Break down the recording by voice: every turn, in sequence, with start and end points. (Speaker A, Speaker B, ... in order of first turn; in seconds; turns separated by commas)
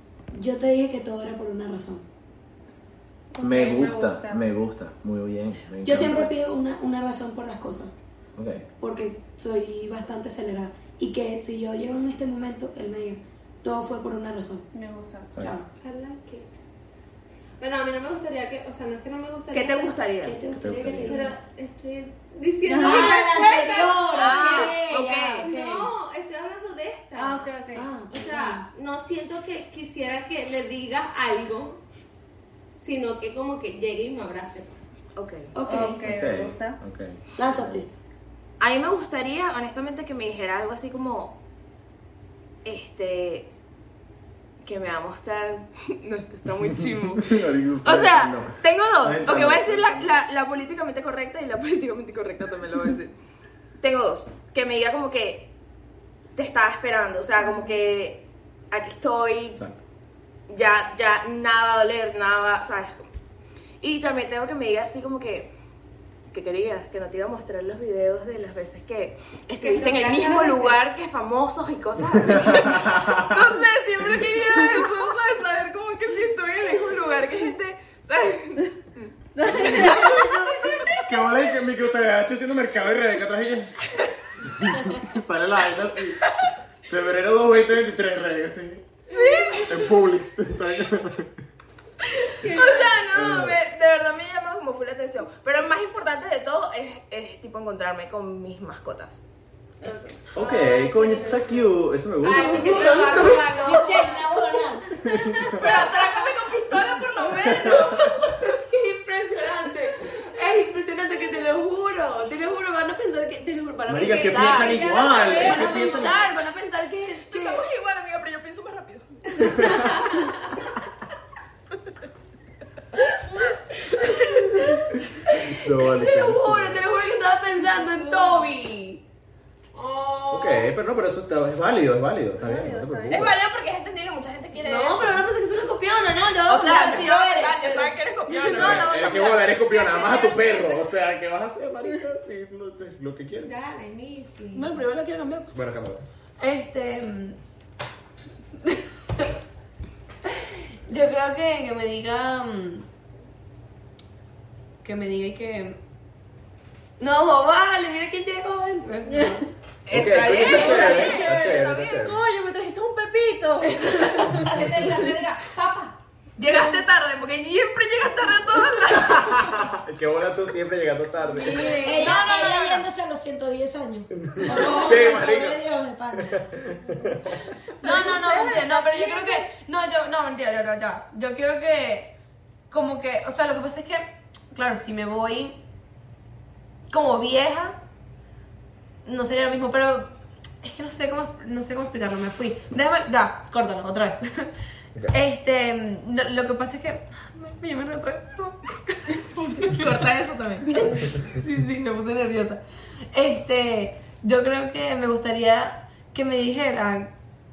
Speaker A: 0.3-2.0, Speaker B: 3.3-4.5, Speaker C: 3.4-6.3, Speaker A: 5.8-7.9, Speaker C: 8.4-8.7, Speaker A: 8.8-14.7, Speaker B: 14.7-15.4, Speaker C: 15.3-15.6, Speaker A: 15.4-15.6, Speaker D: 15.8-16.6, Speaker D: 17.6-20.0, Speaker E: 19.5-20.4, Speaker A: 20.2-21.3, Speaker C: 20.5-21.3, Speaker D: 21.0-24.8, Speaker B: 22.6-23.5, Speaker A: 22.8-25.9, Speaker E: 24.1-25.5, Speaker D: 25.4-27.5, Speaker B: 27.1-27.9, Speaker A: 27.7-28.7, Speaker D: 28.1-31.8, Speaker D: 32.8-34.8, Speaker E: 35.1-35.5, Speaker A: 35.5-36.1, Speaker B: 35.6-36.8, Speaker C: 36.0-37.8, Speaker A: 37.4-37.9, Speaker E: 38.6-41.4, Speaker E: 42.6-43.5, Speaker E: 44.6-53.1, Speaker C: 47.2-50.1, Speaker E: 53.8-55.5, Speaker E: 56.3-59.6, Speaker E: 60.5-63.0, Speaker E: 63.8-65.5, Speaker E: 66.3-80.9, Speaker D: 69.5-70.8, Speaker C: 72.3-73.3, Speaker B: 79.3-80.5, Speaker C: 80.7-83.7, Speaker C: 84.4-86.2, Speaker C: 86.9-88.8, Speaker D: 89.1-89.7, Speaker B: 89.1-89.9, Speaker C: 89.7-91.3, Speaker E: 92.1-99.2, Speaker D: 92.4-93.1, Speaker C: 93.1-93.6, Speaker B: 99.8-100.3, Speaker C: 100.3-103.5, Speaker D: 100.3-106.0, Speaker F: 102.5-103.2, Speaker A: 102.8-104.9, Speaker C: 105.0-105.9, Speaker E: 105.5-108.4, Speaker C: 107.4-108.1, Speaker F: 107.5-117.7, Speaker C: 113.9-116.2, Speaker D: 114.0-116.2, Speaker E: 117.3-119.5, Speaker D: 119.3-120.5, Speaker C: 119.4-120.0, Speaker C: 125.1-126.9, Speaker F: 125.7-129.0, Speaker D: 127.6-128.4, Speaker D: 129.7-130.7, Speaker C: 130.3-133.3, Speaker B: 132.3-133.3, Speaker E: 133.1-135.2, Speaker F: 134.6-137.1, Speaker E: 136.4-139.5, Speaker A: 136.5-137.9, Speaker C: 138.3-143.5, Speaker D: 139.6-140.9, Speaker D: 143.4-144.8, Speaker F: 144.5-145.6, Speaker C: 145.5-146.0, Speaker F: 146.4-147.4, Speaker F: 148.6-149.3, Speaker F: 150.4-152.8, Speaker F: 154.8-155.8, Speaker F: 157.0-159.4, Speaker B: 159.1-159.4, Speaker E: 159.8-162.0, Speaker C: 159.9-162.2, Speaker B: 160.4-164.5, Speaker F: 163.8-164.3, Speaker D: 164.3-166.0, Speaker E: 166.4-169.7, Speaker B: 166.4-166.8, Speaker C: 168.9-171.7, Speaker B: 171.2-172.3, Speaker A: 171.7-176.5, Speaker F: 171.8-172.9, Speaker C: 174.1-175.6, Speaker D: 174.4-175.2, Speaker C: 176.2-177.3, Speaker B: 177.8-179.5, Speaker F: 177.8-182.1, Speaker F: 182.7-185.6, Speaker F: 186.9-187.8, Speaker F: 189.0-190.1, Speaker F: 190.6-194.5, Speaker F: 195.1-200.1, Speaker E: 199.6-200.9, Speaker F: 200.7-202.6, Speaker B: 200.8-201.0, Speaker F: 203.1-207.1